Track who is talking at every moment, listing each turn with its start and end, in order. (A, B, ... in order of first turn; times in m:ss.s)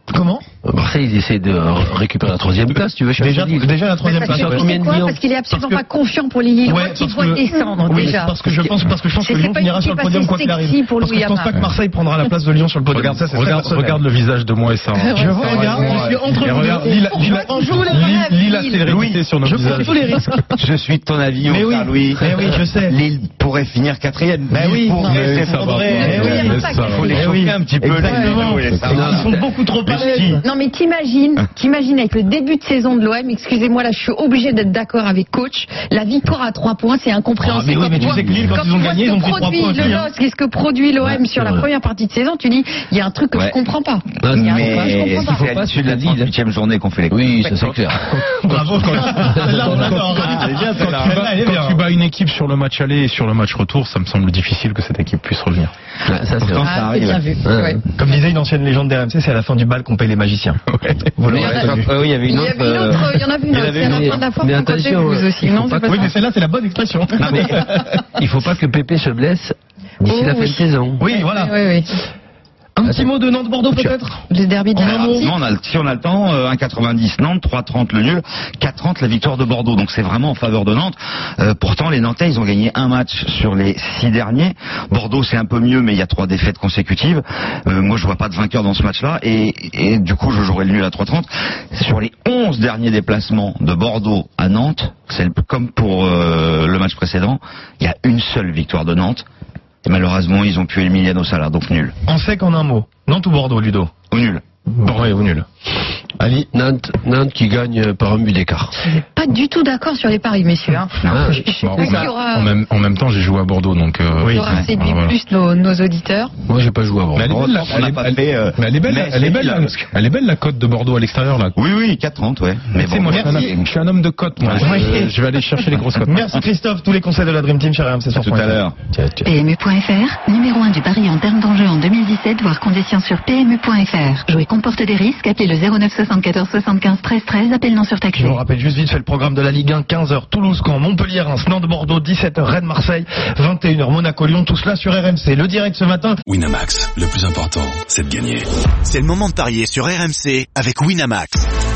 0:00.1-0:00.4 A
0:00.7-0:05.2 B
0:03.2-0:04.5 A
0:04.0-0:08.5 C
0:05.5-0:05.8 A
0:06.6-0:14.0 A
0:09.2-0:11.5 C
0:12.9-0:20.4 D
0:14.9-0:18.8 C
0:15.1-0:18.7 A
0:18.9-0:19.2 E
0:19.4-0:20.5 A
0:20.6-0:30.4 E
0:21.5-0:23.0 A
0:24.5-0:30.4 A
0:25.0-0:27.3 C
0:25.0-0:27.1 D
0:28.0-0:28.5 C
0:28.6-0:29.1 D
0:29.0-0:29.3 B
0:29.9-0:45.3 C
0:37.4-0:40.1 A
0:41.0-0:41.7 B
0:43.3-0:43.6 E
0:44.2-0:46.3 B
0:44.3-0:47.6 E
0:47.1-0:48.1 B
0:48.1-0:55.7 D
0:48.4-0:51.8 A
0:49.2-0:50.0 B
0:50.1-0:51.2 E
0:56.1-0:56.7 B
0:56.4-0:57.2 E
0:56.6-0:57.8 C
0:57.4-0:57.8 B
0:58.0-1:00.6 A
1:00.7-1:01.1 D
1:01.2-1:01.9 A
1:01.3-1:01.7 B
1:01.3-1:04.2 E
1:02.3-1:06.1 C
1:03.8-1:06.1 B
1:05.9-1:08.0 A
1:07.2-1:07.5 B
1:08.2-1:11.0 B
1:10.1-1:11.9 C
1:11.0-1:11.6 A
1:12.8-1:14.2 A
1:12.8-1:13.1 B
1:14.3-1:15.3 C
1:14.8-1:15.3 A
1:14.8-1:39.3 E
1:39.8-1:42.0 E
1:42.1-1:43.9 A
1:44.1-1:44.4 E
1:44.7-1:45.5 A
1:46.2-1:46.5 A
1:46.5-1:48.7 B
1:48.8-1:52.6 C
1:51.0-1:51.3 E
1:51.1-1:52.1 B
1:51.6-1:55.2 D
1:54.3-1:56.3 C
1:54.4-1:54.7 E
1:56.5-1:57.3 B
1:57.2-2:01.5 D
1:57.3-1:59.9 E
2:01.6-2:03.7 E
2:02.8-2:06.4 D
2:03.1-2:03.5 A
2:04.4-2:05.0 E
2:04.5-2:05.2 A
2:06.0-2:08.6 A
2:08.2-2:08.8 E
2:09.0-2:09.3 B
2:09.2-2:18.4 F
2:18.1-2:26.2 A
2:26.3-2:28.4 G
2:26.5-2:27.2 H
2:27.8-2:31.5 H